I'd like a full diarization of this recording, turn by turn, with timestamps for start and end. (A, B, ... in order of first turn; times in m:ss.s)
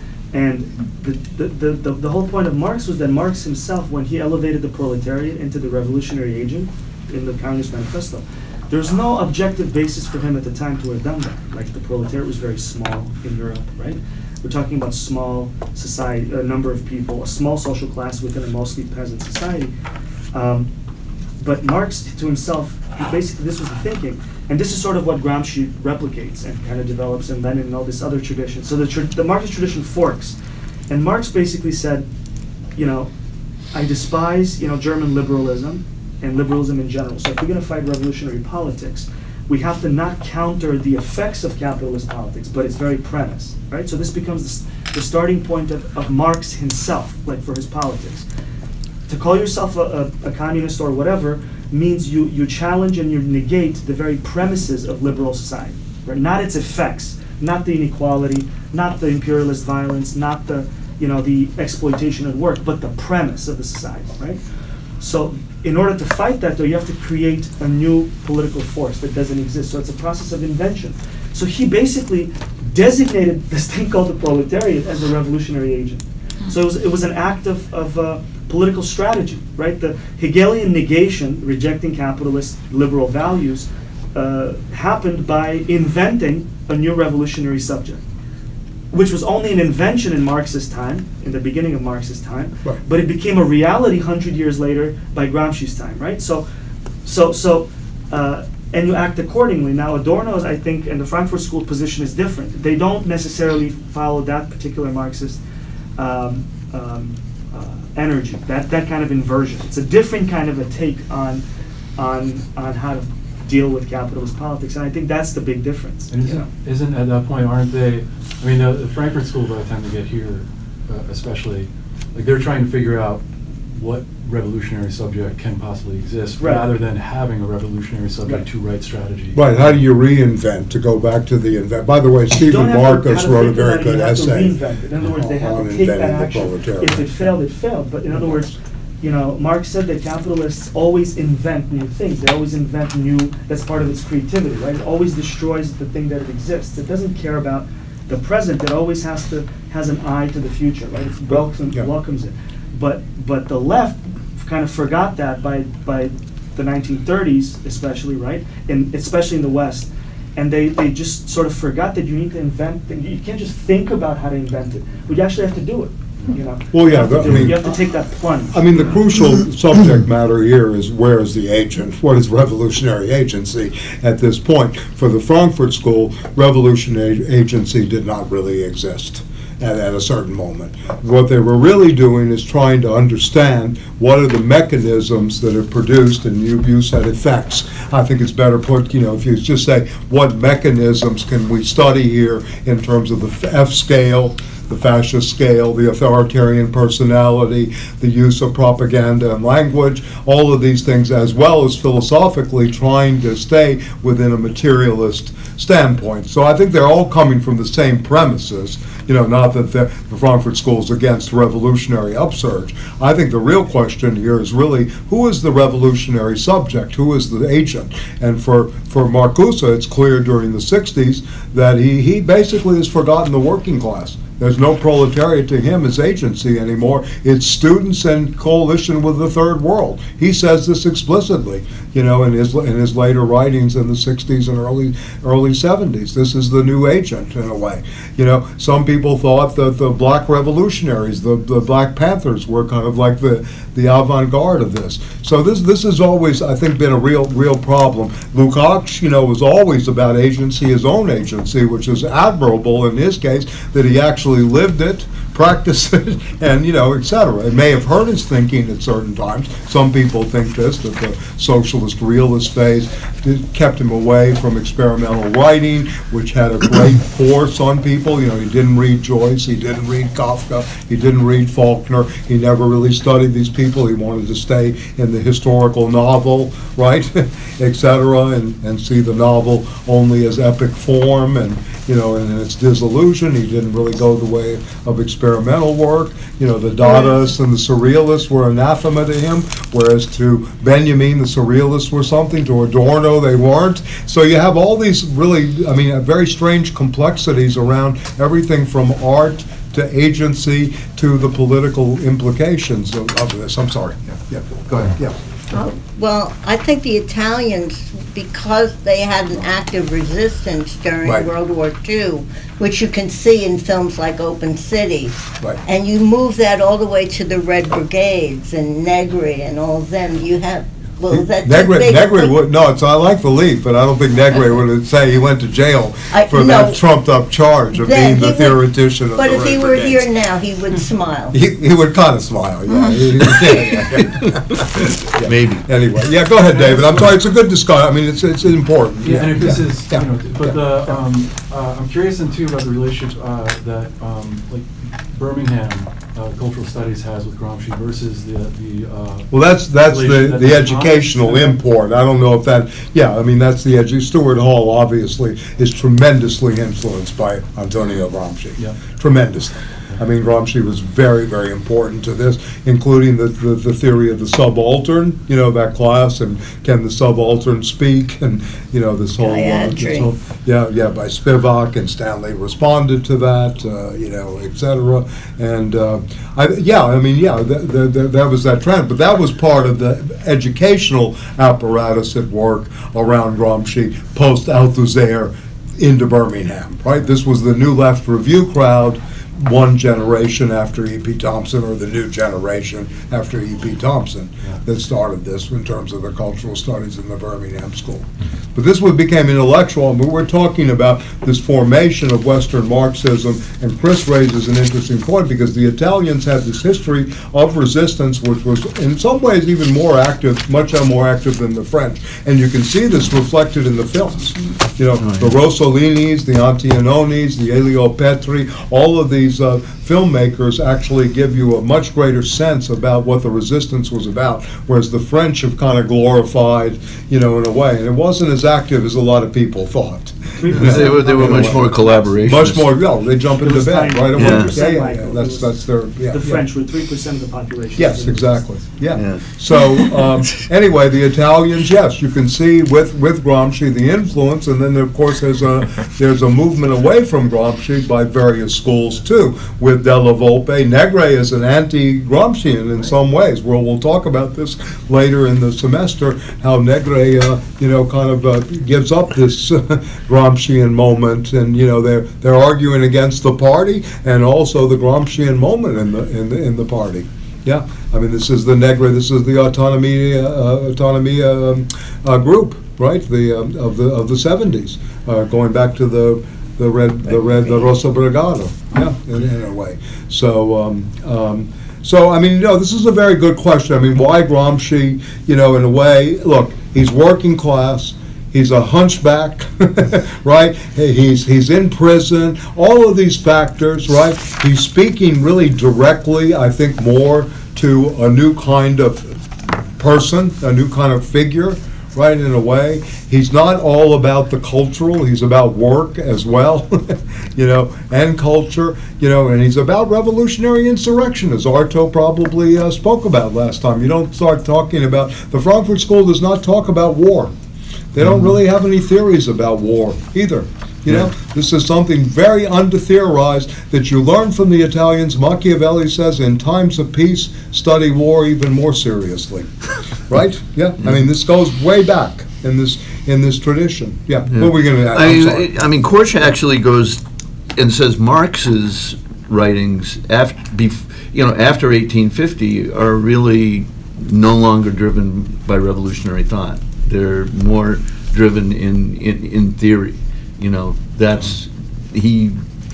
0:00.3-0:19.7 A
0:20.3-0:20.7 A
0:21.4-0:30.4 A
0:30.9-0:32.1 A
0:32.8-0:33.1 A
0:33.7-0:48.3 A
0:49.1-1:04.4 A
1:05.0-1:28.0 A
1:28.9-1:36.4 A
1:37.0-1:45.4 A
1:46.0-1:51.4 A
1:52.0-1:56.5 A
1:56.1-2:09.8 B
2:06.4-2:06.7 A
2:09.3-2:17.3 C
2:12.4-2:48.9 A
2:46.7-2:47.7 C
2:48.5-5:05.2 C
5:05.5-5:22.4 D
5:11.0-5:11.3 C
5:21.1-5:30.1 C
5:26.1-5:26.8 D
5:27.7-5:28.6 D
5:29.2-5:31.4 D
5:31.3-5:41.0 C
5:34.3-5:35.7 E
5:39.0-5:49.3 B
5:49.3-7:16.4 C
5:49.8-5:51.6 B
6:09.2-6:10.1 D
6:55.0-6:55.3 E
7:10.4-7:12.1 A
7:10.5-7:12.7 E
7:13.4-7:15.6 A
7:14.2-7:14.6 E
7:16.1-7:18.6 A
7:17.8-8:19.2 C
7:19.0-7:19.8 E
8:19.8-8:37.3 C
8:37.9-8:49.5 C
8:50.1-8:55.5 C
8:54.3-8:57.0 E
8:57.6-9:12.4 E